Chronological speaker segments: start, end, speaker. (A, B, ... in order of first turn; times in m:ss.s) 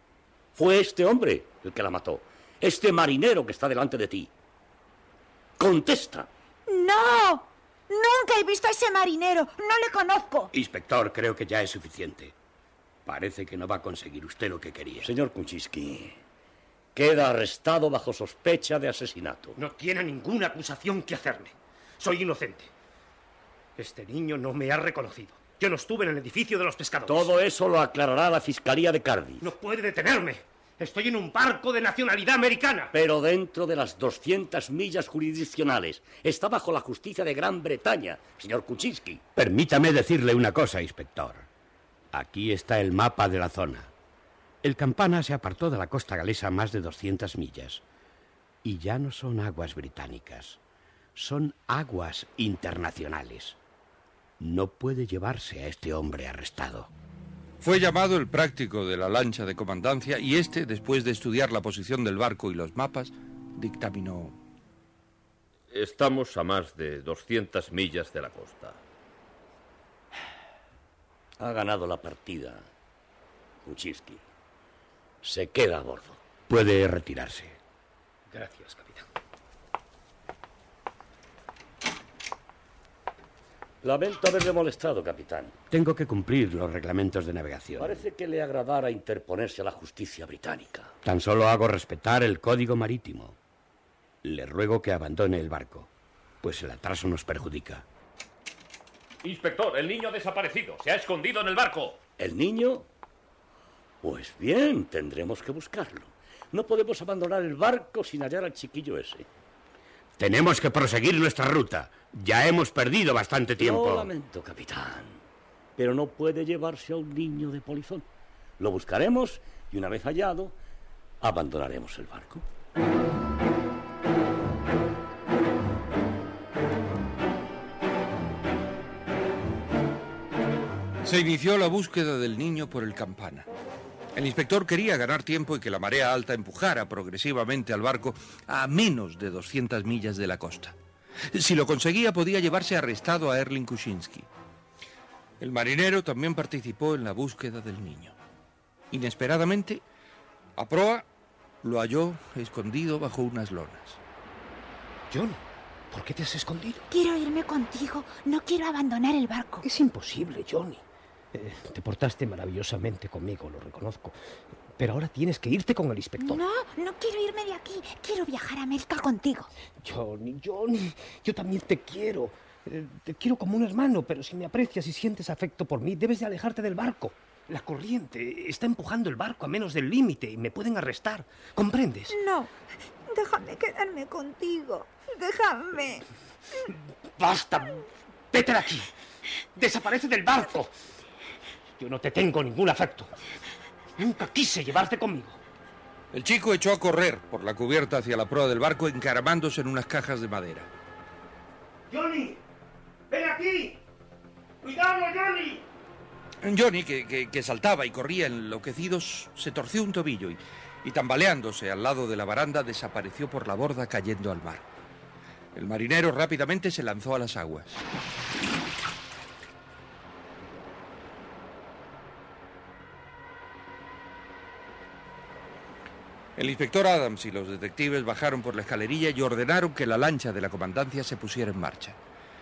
0:00.5-0:04.3 A
0:05.6-0:06.3 A
0:06.7-0:10.5 B
0:10.5-0:12.3 C
0:13.0-0:15.1 C
0:15.0-0:16.2 A
0:16.9-0:19.6 A
0:19.6-0:22.7 D
0:23.8-0:27.3 D
0:27.0-0:29.4 A
0:29.4-0:32.9 D
0:32.9-0:39.2 A
0:39.4-0:41.5 C
0:42.1-0:43.9 C
0:44.6-0:47.8 C
0:48.6-0:50.6 C
0:51.1-0:53.6 C
0:54.4-0:56.9 C
0:57.6-1:04.3 E
1:05.7-1:08.8 F
1:11.4-1:12.7 A
1:13.6-1:14.2 A
1:15.2-1:16.2 A
1:16.5-1:17.6 C
1:18.3-1:19.0 D
1:23.8-1:25.5 A
1:25.7-1:28.0 C
1:27.8-1:30.9 A
1:31.0-1:33.4 C
1:34.2-1:35.9 C
1:36.4-1:37.8 C
1:39.2-1:42.0 F
1:42.2-1:42.9 A
1:44.0-1:49.3 A
1:50.2-1:54.1 C
1:53.6-1:55.2 A
1:55.8-1:58.0 A
1:58.6-2:00.6 A
2:01.2-2:02.4 A
2:11.0-2:13.5 E
2:14.1-2:20.7 E
2:21.3-2:24.3 E
2:25.4-2:28.2 E
2:28.9-2:29.8 E
2:30.6-2:31.0 E
2:31.6-2:34.0 E
2:35.1-2:36.8 D
2:36.9-2:39.6 B
2:39.6-2:44.2 D
2:44.8-2:46.4 D
2:46.2-2:49.5 B
2:49.8-3:02.2 D
3:02.1-3:02.5 B
3:03.1-3:06.0 B
3:07.2-3:08.9 D
3:09.5-3:10.7 D
3:11.8-3:13.1 D
3:14.0-3:15.4 D
3:16.1-3:20.7 E
3:21.9-3:22.4 D
3:23.1-3:23.8 D
3:24.6-3:25.6 D
3:26.4-3:34.6 E
3:35.5-3:37.8 E
3:46.4-3:52.0 E